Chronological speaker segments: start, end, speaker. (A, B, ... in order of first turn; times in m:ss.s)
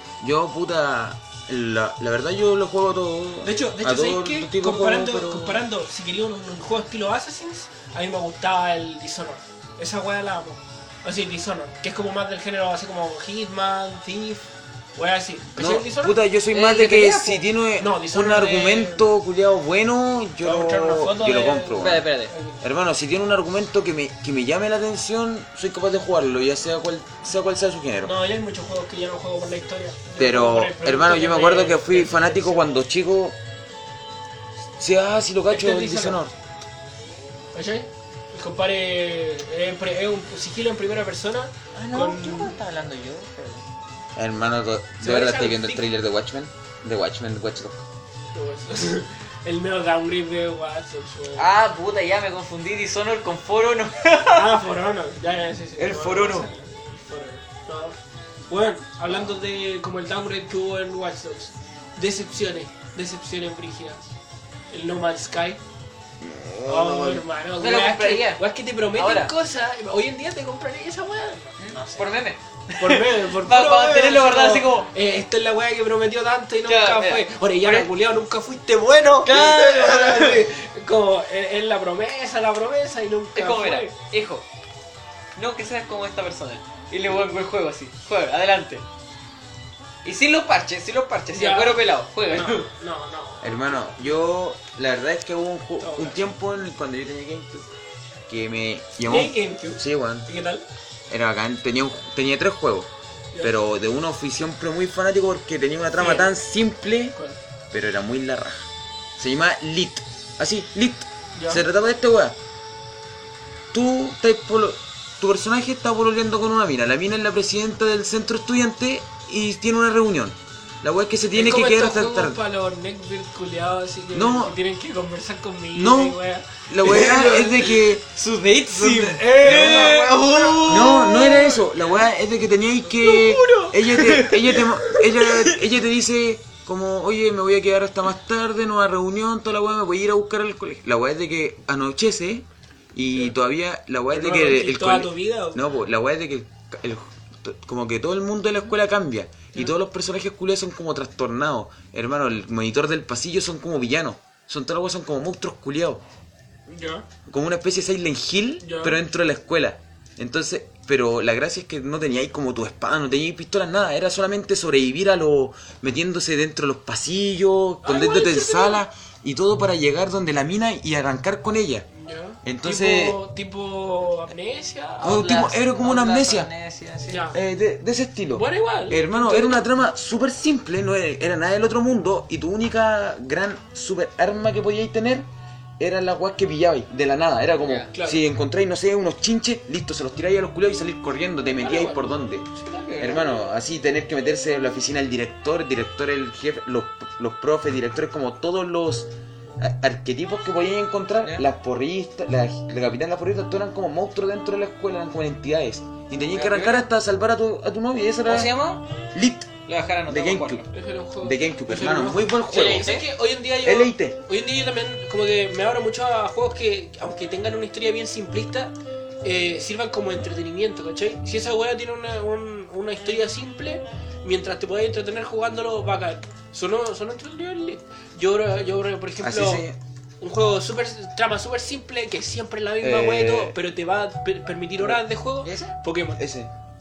0:00.2-0:05.6 A
0:03.4-0:16.2 B
0:15.6-0:22.1 A
0:16.5-0:17.4 C
0:17.8-0:19.1 B
0:20.4-0:22.6 B
0:21.8-0:22.3 C
0:22.6-0:28.1 A
0:28.0-0:32.8 B
0:30.2-0:33.4 A
0:34.8-0:36.3 A
0:35.5-0:36.2 B
0:37.5-0:42.6 B
0:41.7-0:43.6 C
0:44.2-0:47.8 A
0:45.0-0:45.8 B
0:48.3-0:51.5 B
0:51.4-0:54.6 C
0:54.3-0:58.0 B
0:55.8-0:56.5 C
0:58.5-1:04.1 B
1:04.7-1:05.6 B
1:06.2-1:07.2 A
1:06.6-1:12.0 B
1:07.6-1:08.4 C
1:08.9-1:09.3 C
1:11.6-1:14.9 C
1:12.8-1:23.9 B
1:16.6-1:17.9 C
1:19.2-1:20.5 C
1:23.4-1:24.4 C
1:25.4-1:28.8 C
1:30.0-1:32.7 C
1:31.3-1:34.0 B
1:33.4-1:37.7 A
1:35.8-1:36.2 B
1:38.3-1:40.3 A
1:39.0-1:40.6 B
1:41.1-1:42.9 A
1:43.4-1:47.2 A
1:46.0-1:46.3 B
1:47.7-1:48.7 A
1:49.2-1:52.4 A
1:51.4-1:51.6 B
1:53.7-2:02.4 A
2:01.3-2:07.7 B
2:04.1-2:04.6 A
2:05.7-2:08.0 A
2:06.8-2:11.4 C
2:08.7-2:12.0 B
2:09.4-2:10.0 A
2:10.6-2:36.0 A
2:13.0-2:15.6 C
2:24.1-2:25.6 B
2:36.7-2:37.0 B
2:37.3-2:51.9 A
2:38.6-2:39.0 B
2:47.8-2:48.8 B
2:52.0-2:55.2 B
2:52.4-2:53.2 A
2:55.0-2:57.3 C
2:55.0-2:56.5 A
2:57.1-2:57.4 B
2:57.3-3:05.3 A
2:58.3-2:59.7 B
3:05.8-3:12.5 A
3:07.6-3:07.9 C
3:07.9-3:08.2 B
3:11.6-3:12.1 B
3:12.6-3:13.4 C
3:12.8-3:13.2 B
3:13.0-3:28.6 A
3:26.3-3:26.9 C
3:28.3-3:28.8 C
3:29.1-3:29.5 A
3:29.7-3:30.7 C
3:30.1-3:30.6 A
3:30.7-3:49.7 B
3:31.2-3:32.9 A
3:32.5-3:33.0 C
3:33.6-3:34.2 A
3:49.2-3:49.8 A
3:50.2-3:56.2 B
3:52.8-3:53.6 A
3:55.4-3:55.7 C
3:56.2-3:56.5 A